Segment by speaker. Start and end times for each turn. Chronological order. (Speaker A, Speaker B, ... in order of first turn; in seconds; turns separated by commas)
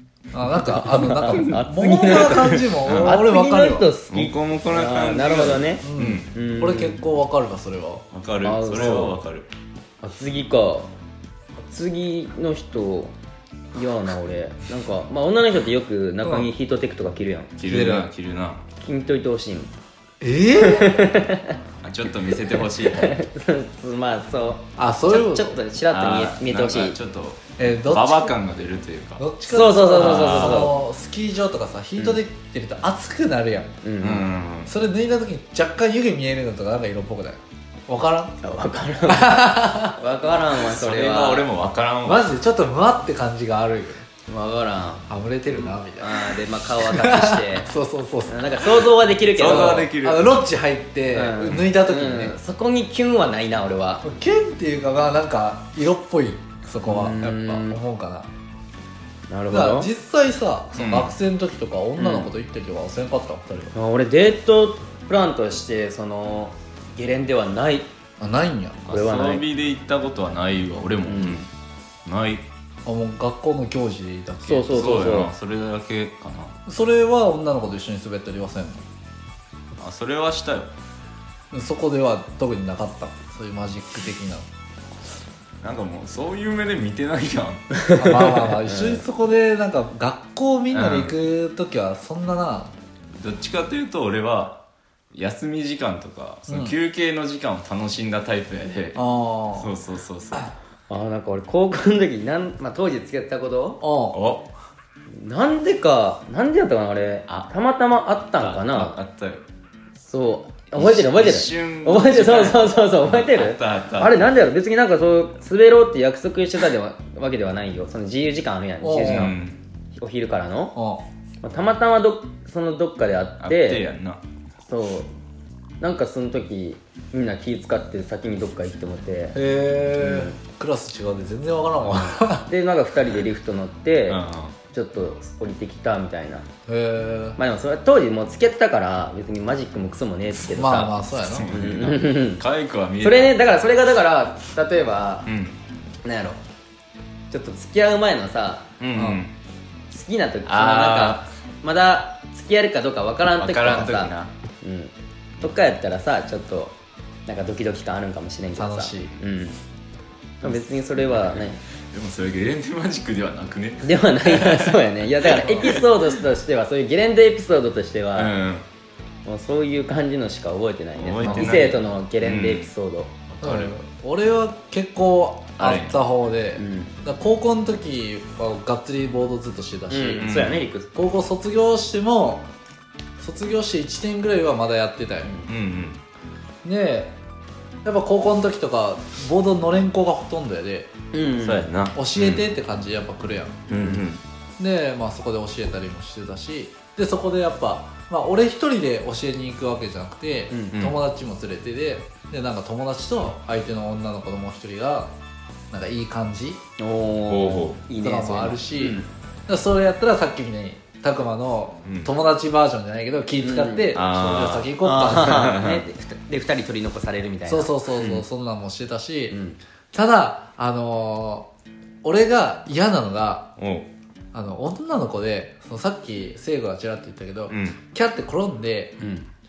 Speaker A: 0.3-3.9, Speaker B: 0.6-7.0, Speaker C: 1.0-1.5, Speaker C: 2.3-3.2, Speaker C: 4.1-6.3, Speaker A: 5.8-8.0, Speaker C: 8.1-9.5, Speaker B: 8.4-9.1, Speaker B: 10.0-10.9, Speaker B: 11.6-13.1, Speaker B: 13.7-17.5, Speaker A: 16.2-16.5, Speaker C: 17.6-18.6, Speaker A: 17.6-18.1, Speaker B: 18.8-19.7, Speaker A: 20.2-21.1, Speaker B: 20.6-21.6, Speaker C: 21.8-23.2, Speaker B: 22.4-27.0, Speaker A: 24.8-25.6, Speaker C: 25.9-29.2, Speaker A: 27.6-28.4, Speaker A: 29.2-33.7, Speaker B: 29.5-30.8, Speaker C: 29.9-30.6, Speaker B: 33.8-34.3, Speaker C: 34.0-34.7, Speaker A: 34.6-38.4, Speaker B: 38.4-41.5, Speaker A: 39.1-40.0, Speaker C: 40.6-42.3, Speaker A: 42.0-44.0, Speaker B: 44.3-47.7, Speaker A: 45.1-48.9, Speaker B: 48.3-49.9, Speaker C: 49.3-50.4, Speaker A: 49.4-52.4, Speaker B: 51.1-54.0, Speaker A: 54.0-58.3, Speaker B: 56.8-57.8, Speaker B: 59.3-59.9, Speaker A: 59.5-63.7, Speaker C: 60.8-61.1, Speaker B: 62.0-62.3, Speaker B: 63.7-67.9, Speaker A: 68.2-68.8, Speaker C: 68.9-71.5, Speaker B: 68.9-69.5, Speaker B: 71.0-71.4, Speaker C: 72.0-72.4, Speaker A: 72.8-74.9, Speaker B: 74.4-75.3, Speaker C: 74.7-76.5, Speaker A: 76.7-78.8, Speaker C: 79.8-80.7, Speaker A: 81.5-84.5, Speaker C: 85.6-87.7, Speaker B: 87.9-89.0, Speaker A: 87.9-92.7, Speaker C: 90.7-91.1, Speaker C: 93.2-99.0, Speaker A: 96.5-96.8, Speaker A: 98.9-99.7, Speaker C: 99.5-100.5, Speaker B: 100.9-103.8, Speaker A: 103.8-104.2, Speaker C: 104.1-104.5, Speaker B: 105.1-109.0, Speaker C: 108.4-109.4, Speaker B: 110.0-119.4, Speaker C: 110.7-114.3, Speaker A: 118.8-119.3, Speaker C: 119.0-119.6, Speaker B: 119.9-120.8, Speaker A: 120.8-121.0, Speaker B: 121.4-123.8, Speaker C: 123.4-124.2, Speaker B: 124.6-125.1, Speaker B: 125.8-129.4, Speaker A: 129.3-132.5, Speaker B: 130.0-130.3, Speaker B: 131.9-136.4, Speaker C: 134.1-134.6, Speaker A: 136.7-137.4, Speaker B: 137.4-141.0, Speaker A: 140.5-141.5, Speaker C: 141.1-143.4, Speaker B: 141.5-142.4, Speaker B: 143.0-145.3, Speaker C: 145.2-145.6, Speaker B: 146.0-146.4, Speaker B: 147.3-148.7, Speaker C: 148.8-149.3, Speaker A: 148.9-149.2, Speaker B: 149.9-156.8, Speaker C: 150.4-151.2, Speaker C: 153.3-154.3, Speaker B: 157.2-159.6, Speaker A: 158.6-159.1, Speaker B: 160.4-161.6, Speaker C: 161.1-164.8, Speaker B: 163.8-168.3, Speaker C: 165.3-165.8, Speaker C: 168.1-168.7, Speaker B: 169.2-173.2, Speaker C: 170.9-172.7, Speaker A: 171.2-171.7, Speaker C: 173.4-173.7, Speaker A: 173.4-180.3, Speaker C: 175.6-176.0, Speaker B: 176.6-176.9, Speaker B: 179.9-180.9, Speaker C: 180.2-180.7, Speaker A: 180.9-182.5, Speaker A: 183.2-185.4, Speaker C: 185.5-186.0, Speaker A: 186.6-187.2, Speaker A: 187.8-190.9, Speaker B: 191.1-191.7, Speaker C: 191.4-192.4, Speaker A: 191.9-193.7, Speaker C: 193.7-194.2, Speaker A: 194.6-205.1, Speaker B: 200.5-200.8, Speaker A: 205.7-206.6, Speaker B: 206.8-209.1, Speaker C: 207.3-207.8, Speaker A: 208.0-215.6, Speaker C: 211.8-212.1, Speaker B: 213.4-213.9, Speaker C: 213.9-215.8, Speaker B: 214.8-218.2, Speaker A: 217.4-219.4, Speaker B: 219.3-219.6, Speaker A: 219.9-221.5, Speaker A: 222.0-223.5, Speaker C: 223.6-223.9, Speaker A: 224.3-229.0, Speaker C: 227.5-227.8, Speaker B: 229.0-229.3